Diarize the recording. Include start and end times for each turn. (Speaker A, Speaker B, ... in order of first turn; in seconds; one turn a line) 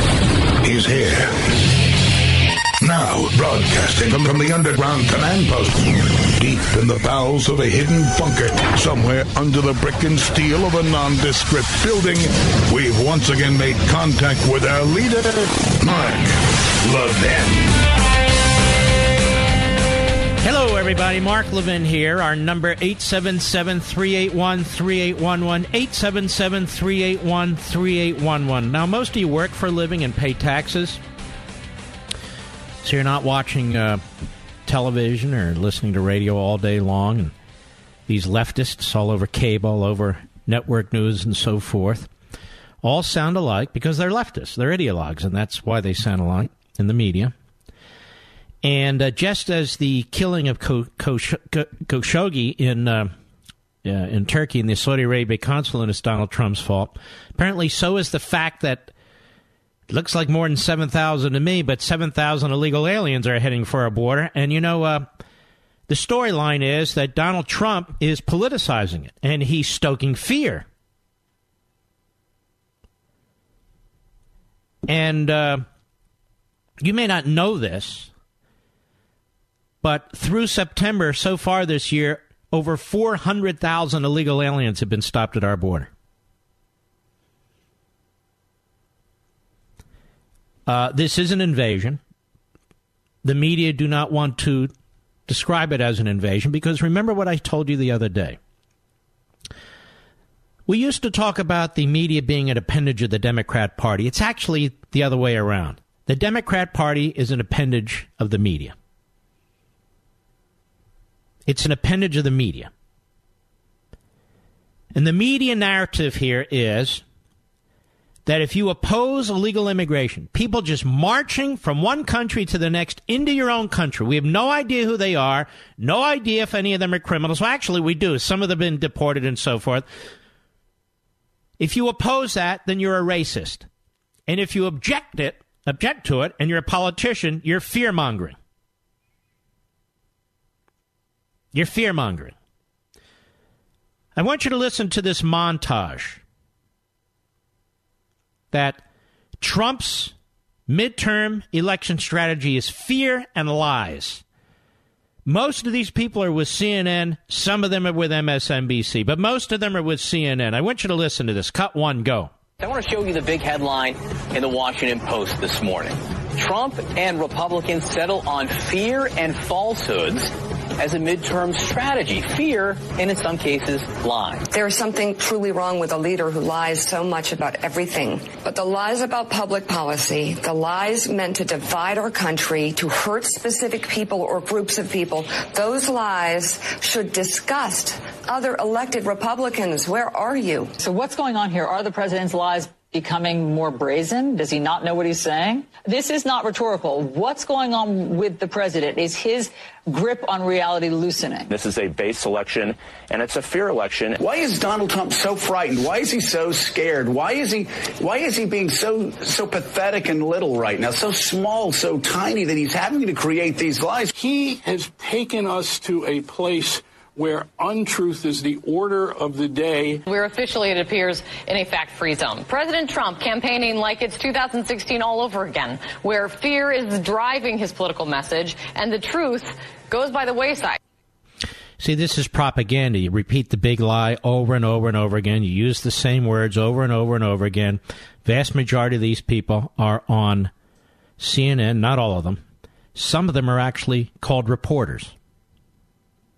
Speaker A: 0.6-1.5
Speaker A: 2.8-17.7
Speaker B: 20.4-31.0
Speaker B: 32.8-34.0
Speaker B: 34.7-37.3
Speaker B: 38.1-42.1
Speaker B: 42.8-47.3
Speaker B: 48.6-53.1
Speaker B: 53.9-58.9
Speaker B: 59.9-65.1
Speaker B: 65.9-70.7
Speaker B: 74.9-75.7
Speaker B: 76.8-78.1
Speaker B: 79.8-85.9
Speaker B: 90.7-92.0
Speaker B: 93.2-94.7
Speaker B: 95.3-98.4
Speaker B: 100.7-108.8
Speaker B: 111.5-112.7
Speaker B: 115.0-117.0
Speaker B: 118.3-129.8
Speaker B: 131.6-133.7
Speaker B: 134.3-138.4
Speaker B: 141.5-142.3
Speaker B: 144.2-146.2
Speaker B: 148.5-148.8
Speaker B: 149.4-150.1
Speaker B: 150.7-154.2
Speaker B: 155.3-162.3
Speaker C: 162.6-174.5
Speaker D: 174.5-190.7
Speaker E: 190.8-201.5
Speaker F: 201.5-204.2
Speaker G: 204.2-214.1
Speaker H: 214.1-220.0
Speaker I: 220.1-230.8
Speaker B: 231.8-240.5
Speaker B: 241.2-242.4
Speaker B: 242.9-245.2